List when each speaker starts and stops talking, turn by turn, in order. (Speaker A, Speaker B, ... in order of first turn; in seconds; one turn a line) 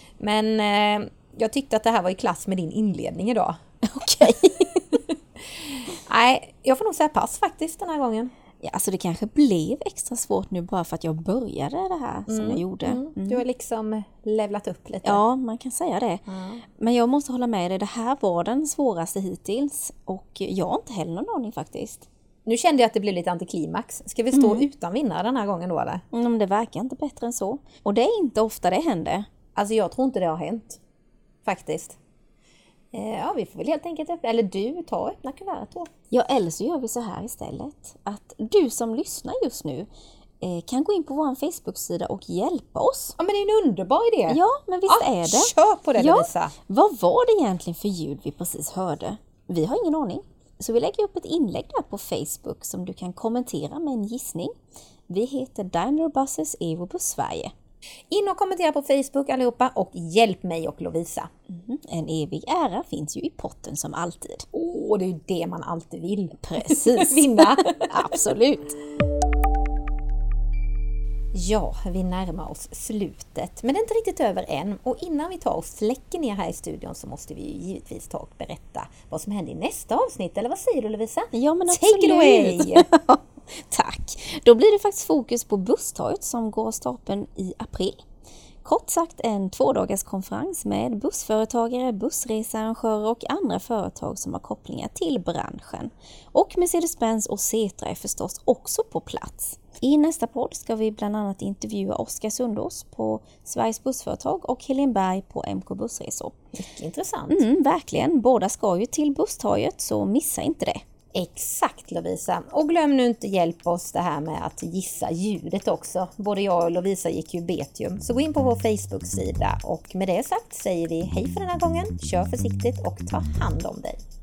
Speaker A: 0.2-3.6
Speaker B: 3.9-4.7
Speaker A: 6.0-8.3
Speaker B: 8.6-13.4
Speaker A: 12.3-15.2
Speaker B: 15.0-16.2
Speaker A: 16.3-16.6
Speaker B: 16.8-22.1
Speaker A: 22.4-26.0
Speaker B: 24.3-24.6
Speaker B: 26.1-29.2
Speaker A: 29.6-30.8
Speaker A: 31.4-31.9
Speaker A: 32.9-35.9
Speaker B: 36.1-39.9
Speaker B: 40.4-43.1
Speaker A: 43.2-46.5
Speaker B: 44.3-54.5
Speaker B: 55.1-57.5
Speaker A: 58.1-61.3
Speaker B: 61.5-64.4
Speaker A: 64.5-67.9
Speaker B: 66.4-68.8
Speaker A: 71.3-82.8
Speaker B: 81.3-88.0
Speaker B: 88.6-106.3
Speaker A: 106.6-107.4
Speaker B: 107.3-110.8
Speaker A: 111.1-124.0